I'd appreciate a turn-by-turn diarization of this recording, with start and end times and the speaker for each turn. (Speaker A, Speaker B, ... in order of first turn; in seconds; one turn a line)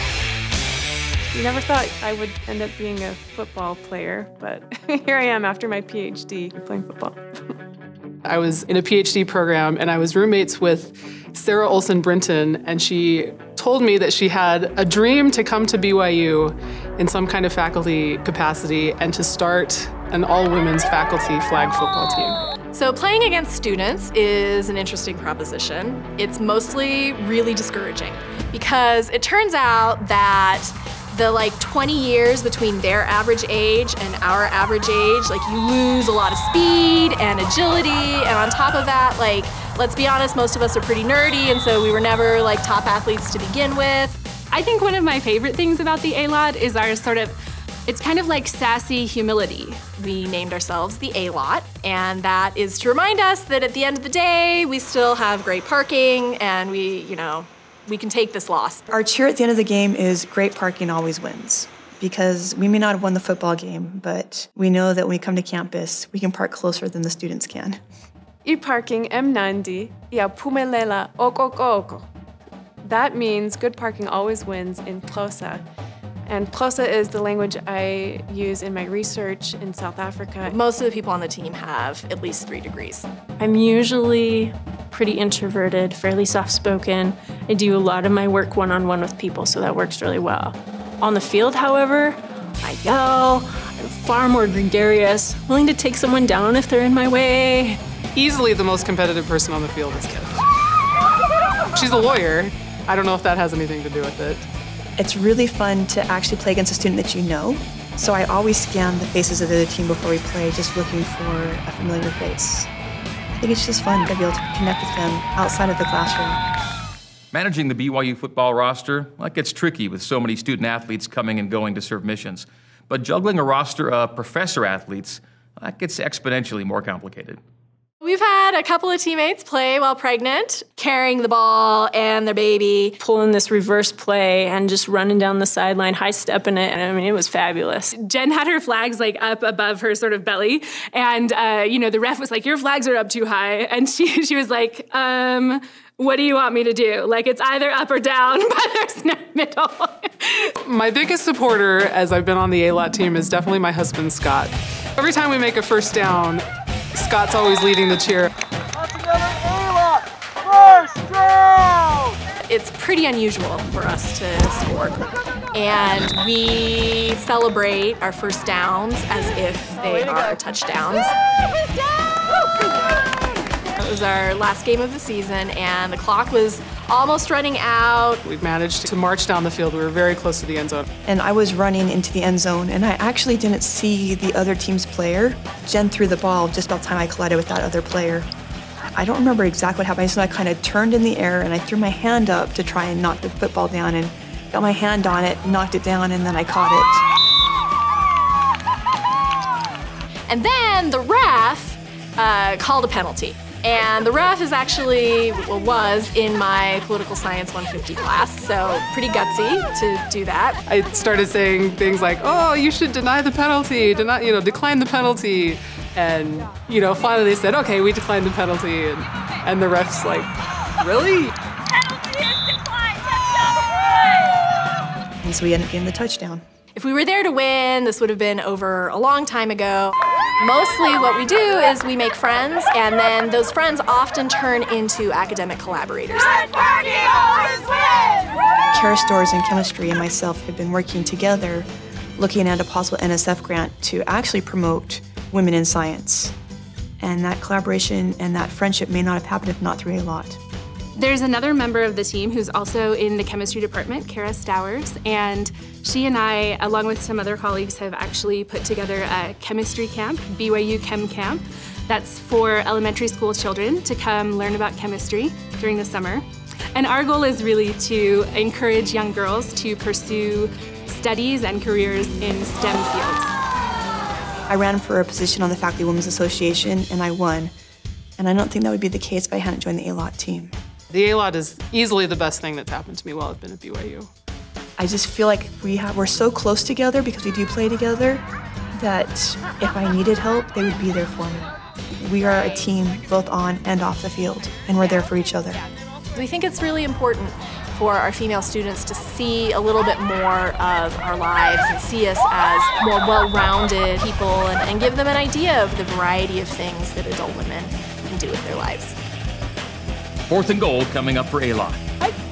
Speaker A: 1.3-7.2
Speaker B: 8.2-22.4
Speaker C: 22.7-44.2
Speaker D: 44.5-47.4
Speaker D: 47.9-49.8
Speaker C: 50.0-58.9
Speaker E: 58.9-67.8
Speaker A: 68.5-72.1
Speaker A: 72.8-75.6
Speaker A: 76.3-80.5
Speaker C: 80.4-83.1
Speaker F: 83.4-97.8
Speaker B: 98.2-100.5
Speaker B: 101.7-104.5
Speaker E: 105.0-112.7
Speaker E: 113.4-116.4
Speaker G: 117.3-127.4
Speaker C: 128.0-133.0
Speaker F: 133.0-137.9
Speaker D: 137.9-150.5
Speaker B: 150.7-158.3
Speaker C: 162.5-165.0
Speaker C: 165.5-171.1
Speaker C: 173.8-178.2
Speaker B: 178.2-180.9
Speaker E: 181.1-188.3
Speaker E: 189.0-197.1
Speaker C: 200.3-210.6
Speaker B: 210.7-221.3
Speaker E: 225.2-226.4
Speaker C: 226.8-236.3
Speaker E: 238.7-246.3
Speaker E: 247.0-250.4
Speaker D: 251.0-273.3
Speaker E: 274.5-277.5
Speaker E: 278.2-280.5
Speaker B: 280.9-284.1
Speaker E: 284.8-288.2
Speaker E: 288.8-295.6
Speaker C: 296.1-309.0
Speaker G: 310.3-311.8